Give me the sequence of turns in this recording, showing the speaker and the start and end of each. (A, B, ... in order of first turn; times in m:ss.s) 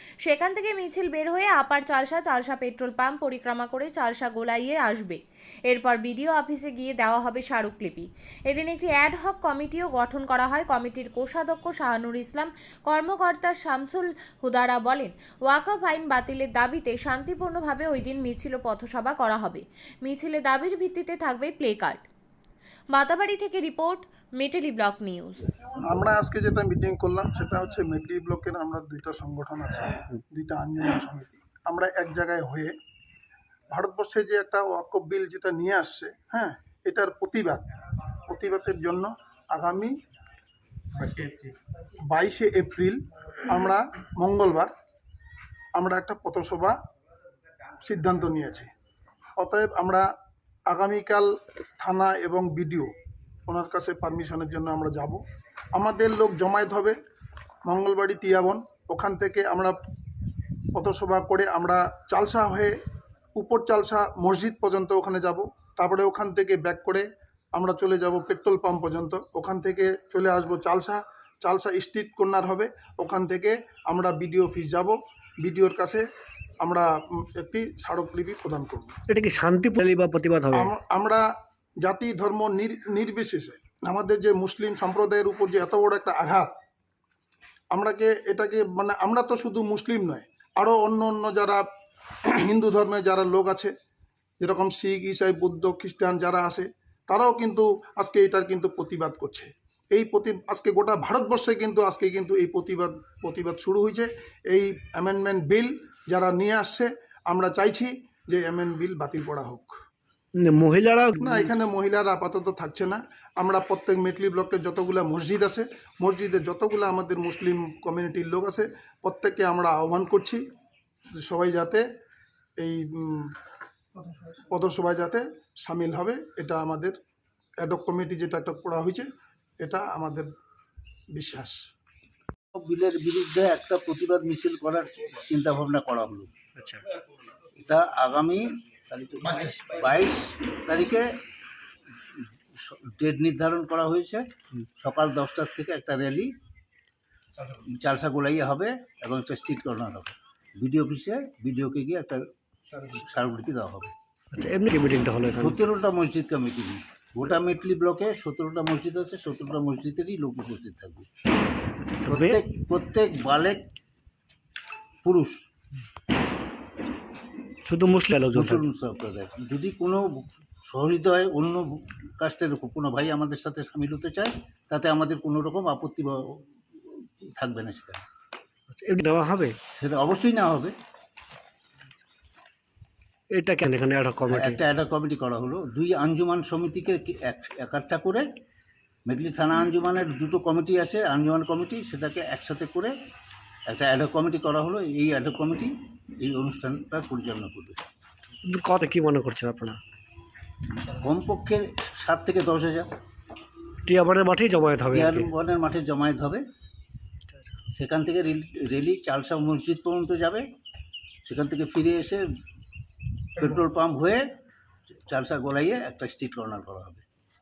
0:00.2-0:22.0 A
0:22.9-0:25.5 A
0:25.8-0:32.7 B
0:33.7-0:37.6 B
0:38.2-0:39.9 B
0:41.0-0:41.5 B
0:42.1-0:44.7 B
0:45.8-0:46.7 B
0:47.8-0:48.7 B
0:49.4-0:50.1 B
0:50.7-0:52.9 B
0:53.5-0:55.2 B
0:55.7-0:57.0 B
0:57.6-0:59.8 B
1:00.7-1:02.7 B
1:03.4-1:16.0 B
1:16.6-1:19.0 B
1:19.1-1:20.7 C
1:20.5-1:21.2 B
1:21.8-1:26.5 B
1:27.7-1:31.6 B
1:32.2-1:33.7 B
1:34.4-1:49.7 B
1:50.4-1:51.5 C
1:51.2-2:00.4 B
2:01.1-2:01.8 B
2:02.6-2:03.3 B
2:04.3-2:06.9 B
2:07.6-2:09.1 B
2:09.6-2:10.3 B
2:11.1-2:11.6 B
2:12.5-2:16.3 D
2:16.6-2:16.8 C
2:17.6-2:21.1 D
2:22.6-2:24.2 D
2:24.8-2:26.3 D
2:27.6-2:32.2 D
2:32.8-2:33.9 D
2:34.3-2:35.6 C
2:35.2-2:41.1 D
2:42.0-2:42.4 C
2:42.1-2:43.6 D
2:45.0-2:45.3 D
2:47.7-2:48.6 C
2:48.3-2:51.6 D
2:52.2-2:58.0 D
2:58.7-2:59.5 C
2:59.8-3:00.7 D
3:03.3-3:04.6 C
3:04.3-3:08.2 D
3:09.0-3:12.9 D
3:13.7-3:15.7 D
3:16.2-3:17.8 D
3:18.4-3:19.8 C
3:20.8-3:22.9 D
3:23.8-3:25.3 C
3:24.9-3:26.4 D
3:27.7-3:30.4 D
3:31.2-3:32.2 D
3:33.4-3:34.2 D
3:34.9-3:37.0 D